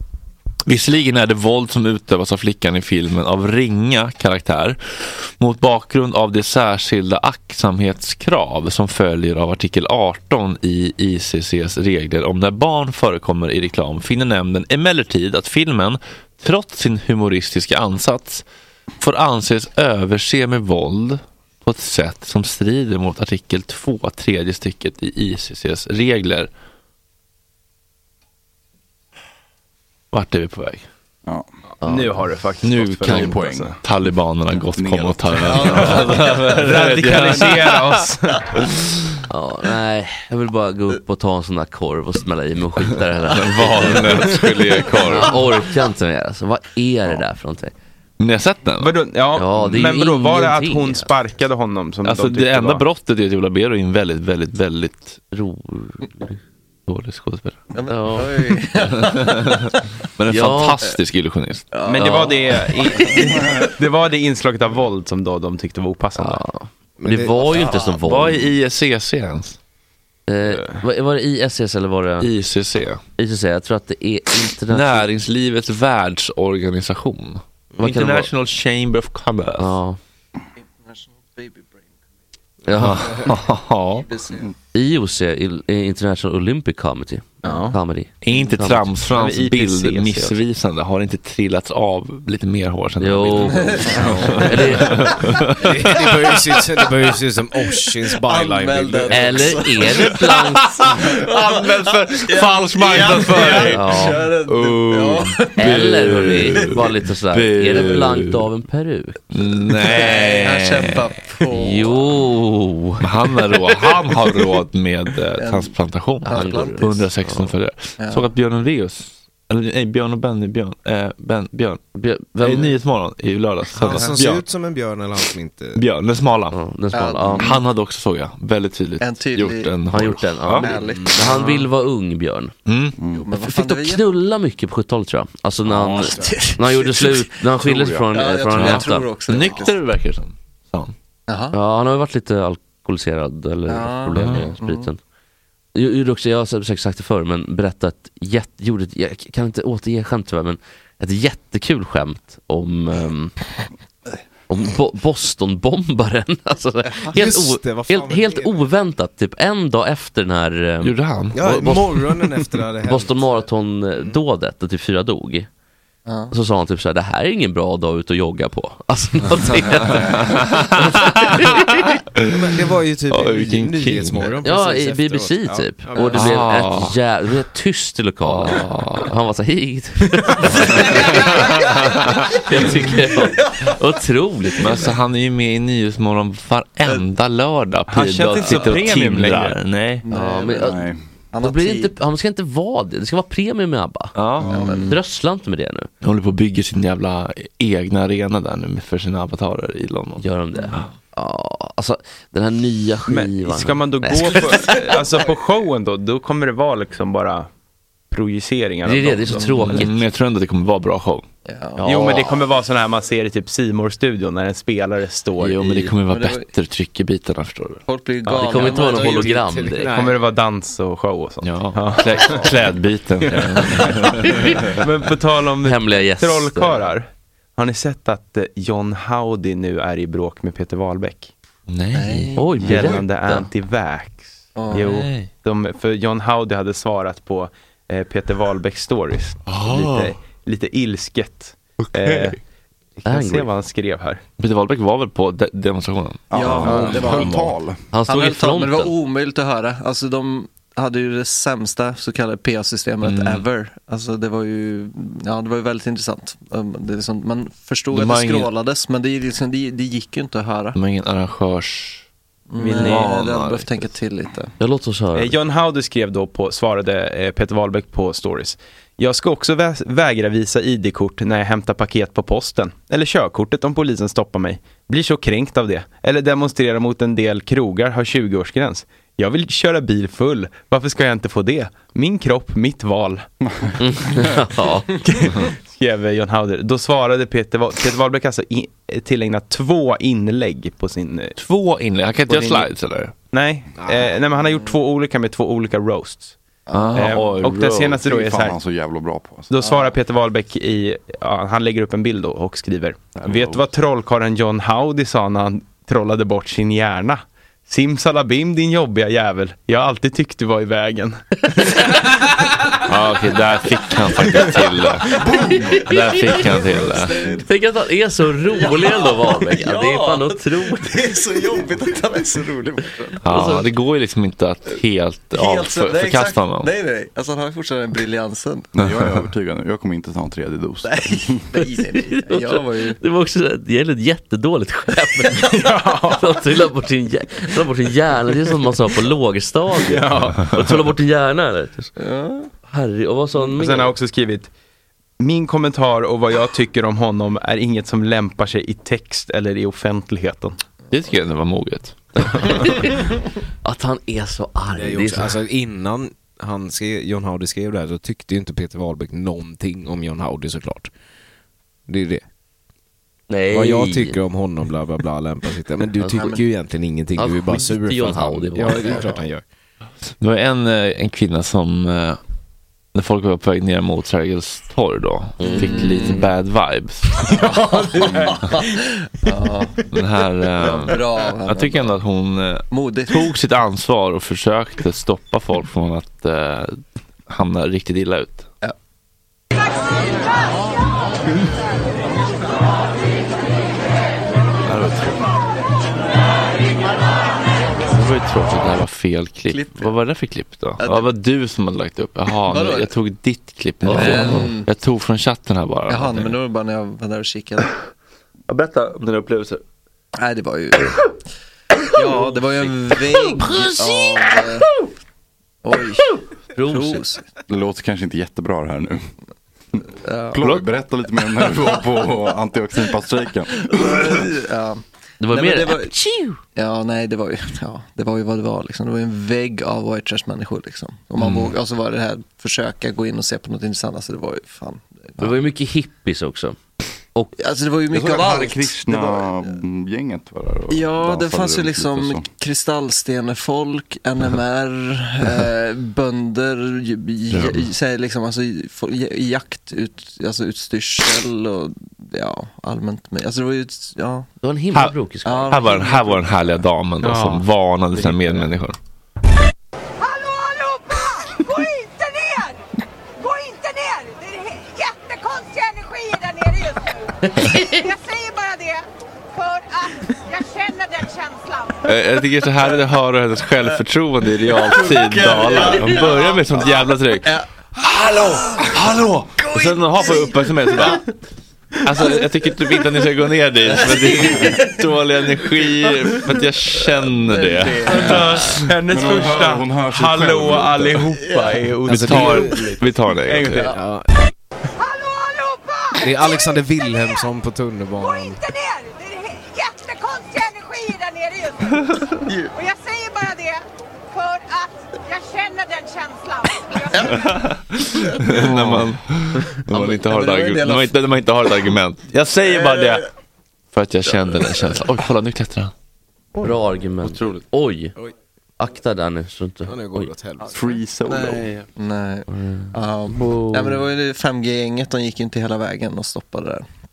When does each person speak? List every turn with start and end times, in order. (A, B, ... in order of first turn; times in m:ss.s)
0:00.6-0:18.4 A
0:19.0-0:26.5 A
0:30.1-0:30.8 A
0:31.8-0:33.8 B
0:31.8-0:32.1 C
0:32.6-0:38.0 A
0:33.0-0:33.8 D
0:34.8-0:35.9 D
0:35.4-0:36.4 E
0:35.6-0:38.6 B
0:39.3-0:44.4 C
0:43.3-0:45.4 A
0:45.0-0:47.7 C
0:48.2-0:48.9 A
0:48.8-0:52.8 B
0:49.4-0:51.1 C
0:52.0-0:55.2 A
0:55.3-0:56.4 C
0:56.9-0:57.6 A
0:57.7-0:59.7 E
0:57.9-0:58.3 C
0:59.0-1:01.7 A
1:00.3-1:00.8 C
1:01.7-1:03.7 E
1:01.8-1:06.4 B
1:02.0-1:02.3 C
1:06.2-1:08.4 C
1:07.0-1:07.5 F
1:07.4-1:08.0 E
1:07.9-1:09.6 A
1:10.3-1:12.3 C
1:10.4-1:10.8 B
1:12.2-1:13.0 A
1:13.2-1:15.1 C
1:14.7-1:19.7 A
1:17.8-1:18.3 C
1:19.6-1:20.0 C
1:20.8-1:21.8 E
1:22.6-1:23.1 C
1:22.7-1:24.5 E
1:22.7-1:24.1 A
1:24.7-1:28.9 C
1:27.4-1:27.8 B
1:28.2-1:35.8 A
1:29.1-1:30.4 B
1:33.0-1:35.2 C
1:33.4-1:35.3 E
1:35.6-1:39.7 F
1:38.0-1:46.8 E
1:39.1-1:40.7 C
1:40.7-1:48.5 A
1:43.6-1:44.3 C
1:45.6-1:49.2 C
1:49.3-1:51.0 A
1:49.8-1:52.2 E
1:51.5-1:53.0 C
1:53.0-2:01.8 A
1:53.9-1:54.2 E
1:55.4-1:57.1 E
1:56.2-1:57.5 C
1:58.0-1:58.2 E
2:01.9-2:02.7 C
2:02.4-2:04.4 A
2:03.7-2:05.8 F
2:03.8-2:04.1 E
2:05.8-2:06.6 A
2:06.5-2:07.6 C
2:06.9-2:07.6 E
2:07.4-2:10.7 A
2:09.0-2:09.7 E
2:09.9-2:12.5 C
2:10.6-2:11.6 E
2:12.6-2:13.0 A
2:13.0-2:13.3 D
2:13.1-2:14.0 E
2:13.3-2:19.1 C
2:15.9-2:16.4 F
2:16.0-2:17.3 E
2:17.6-2:18.0 D
2:18.1-2:19.8 E
2:18.5-2:20.9 A
2:21.3-2:21.6 E
2:21.5-2:25.0 C
2:23.7-2:24.9 E
2:24.1-2:24.4 A
2:25.7-2:33.3 C
2:34.5-2:42.0 C
2:37.1-2:38.6 F
2:40.8-2:41.8 A
2:41.3-2:43.5 F
2:42.8-2:45.5 C
2:46.0-2:46.3 E
2:46.3-2:50.6 C
2:49.4-2:49.9 F
2:49.9-2:51.6 A
2:51.3-2:51.9 C
2:52.2-2:52.4 A
2:52.3-2:56.4 F
2:53.1-2:54.3 A
2:54.4-3:04.8 C
2:56.1-2:57.0 A
2:58.2-2:59.1 A
3:00.6-3:02.1 A
3:00.8-3:01.8 E
3:03.0-3:03.7 E
3:04.6-3:10.0 A
3:07.9-3:09.6 B
3:10.0-3:11.9 E
3:10.1-3:10.8 C
3:10.5-3:11.0 D
3:11.4-3:15.9 C
3:14.2-3:14.7 A
3:14.4-3:15.0 E
3:16.0-3:20.9 A
3:20.2-3:24.8 C
3:23.1-3:27.5 B
3:28.1-3:29.8 B
3:28.8-3:30.0 C
3:29.5-3:31.2 A
3:31.4-3:32.2 E
3:31.8-3:32.4 C
3:31.8-3:35.9 B
3:35.4-3:37.8 A
3:36.1-3:36.5 E
3:37.9-3:39.4 E
3:38.3-3:40.0 C
3:38.5-3:40.2 F
3:39.9-3:42.6 B
3:41.4-3:44.7 A
3:43.2-3:51.3 B
3:45.6-3:46.8 C
3:51.7-3:52.3 A
3:51.9-3:52.5 E
3:52.4-3:53.5 C
3:52.6-4:02.4 B
3:54.6-3:54.9 E
3:54.7-3:55.3 A
3:59.5-4:00.1 A
4:01.8-4:02.3 A
4:03.0-4:04.2 B
4:03.0-4:03.5 C
4:04.4-4:07.5 A
4:06.3-4:07.8 D
4:06.3-4:20.8 E
4:06.6-4:07.1 B
4:07.9-4:08.9 C
4:13.0-4:13.4 A
4:17.9-4:18.5 A
4:20.7-4:22.0 A
4:22.5-4:24.5 E
4:22.6-4:23.2 B
4:22.7-4:23.9 A
4:24.6-4:25.3 C
4:25.1-4:43.2 B
4:43.8-4:44.9 C
4:45.0-4:51.3 B
4:51.4-4:53.1 A
4:52.3-4:52.7 B
4:53.3-4:56.4 B
4:53.8-4:54.1 F
4:56.7-4:57.2 E
4:56.7-4:58.0 A
4:56.9-4:58.6 B
4:58.0-4:59.5 D
4:59.5-5:11.2 B
4:59.6-4:59.9 E
5:03.2-5:03.6 A
5:12.8-5:17.2 A
5:15.1-5:17.4 E
5:17.4-5:21.0 C
5:18.5-5:23.2 E
5:23.2-5:26.7 A
5:23.2-5:23.6 C
5:25.3-5:28.7 E
5:28.7-5:31.4 D
5:30.8-5:33.0 E
5:32.1-5:41.9 C
5:35.3-5:35.7 E
5:35.5-5:36.3 B
5:39.8-5:40.8 B
5:42.0-5:42.5 E
5:42.7-5:43.9 C
5:43.3-5:44.5 B
5:45.2-5:50.6 B
5:50.9-5:52.6 A
5:52.5-5:52.9 C
5:53.6-5:55.4 C
5:54.8-6:00.9 F
6:01.9-6:02.2 F
6:03.3-6:04.2 C
6:03.5-6:09.4 F
6:06.0-6:06.3 C
6:06.2-6:06.4 E
6:07.2-6:09.1 C
6:10.2-6:12.2 A
6:12.9-6:17.4 A
6:15.4-6:15.9 C
6:15.4-6:16.3 E
6:17.2-6:19.8 E
6:19.9-6:28.5 A
6:20.6-6:22.0 E
6:22.7-6:23.3 E
6:34.6-6:35.2 A
6:37.8-6:46.3 A
6:39.5-6:39.9 E
6:40.8-6:41.1 E
6:42.5-6:42.9 E
6:43.8-6:44.5 C
6:43.8-6:44.7 E
6:45.9-6:47.7 E
6:48.5-6:49.6 A
6:50.2-6:51.1 E
6:51.9-6:54.8 E
6:55.6-6:57.3 E
6:56.5-6:57.0 C
6:57.5-6:59.0 D
7:00.0-7:00.4 E
7:00.3-7:03.6 D
7:00.4-7:00.6 A
7:03.6-7:05.9 E
7:05.2-7:06.4 C
7:06.5-7:15.4 E
7:11.2-7:11.5 A
7:15.2-7:16.6 C
7:17.4-7:19.6 E
7:17.9-7:22.2 D
7:20.7-7:34.3 E
7:27.3-7:27.7 A
7:34.4-7:35.7 C
7:35.2-7:36.6 E
7:35.5-7:38.8 A
7:37.0-7:37.4 B
7:41.3-7:42.4 G
7:43.3-7:46.7 G
7:47.3-7:47.8 C
7:48.0-7:48.8 G
7:50.4-7:50.8 G
7:51.8-8:01.1 A
7:54.5-7:57.5 E
7:59.4-8:01.0 E
8:01.8-8:08.4 A
8:03.6-8:04.8 E
8:05.6-8:08.4 E
8:07.9-8:13.7 B
8:08.9-8:11.1 D
8:11.2-8:11.6 E
8:11.9-8:12.6 F
8:11.9-8:13.7 A
8:13.6-8:14.1 F
8:15.9-8:18.6 F
8:18.7-8:21.4 G
8:21.7-8:22.1 A
8:22.2-8:22.6 E
8:22.8-8:23.6 G
8:24.2-8:24.4 G
8:25.2-8:26.1 G
8:26.9-8:27.3 E
8:27.1-8:33.1 A
8:27.9-8:28.9 E
8:29.6-8:31.0 E
8:32.4-8:33.0 E
8:33.7-8:35.7 A
8:34.1-8:34.4 E
8:36.4-8:37.9 C
8:38.6-8:40.1 C
8:39.6-8:40.7 F
8:40.5-8:41.4 D
8:41.1-8:46.6 E
8:42.3-8:42.7 C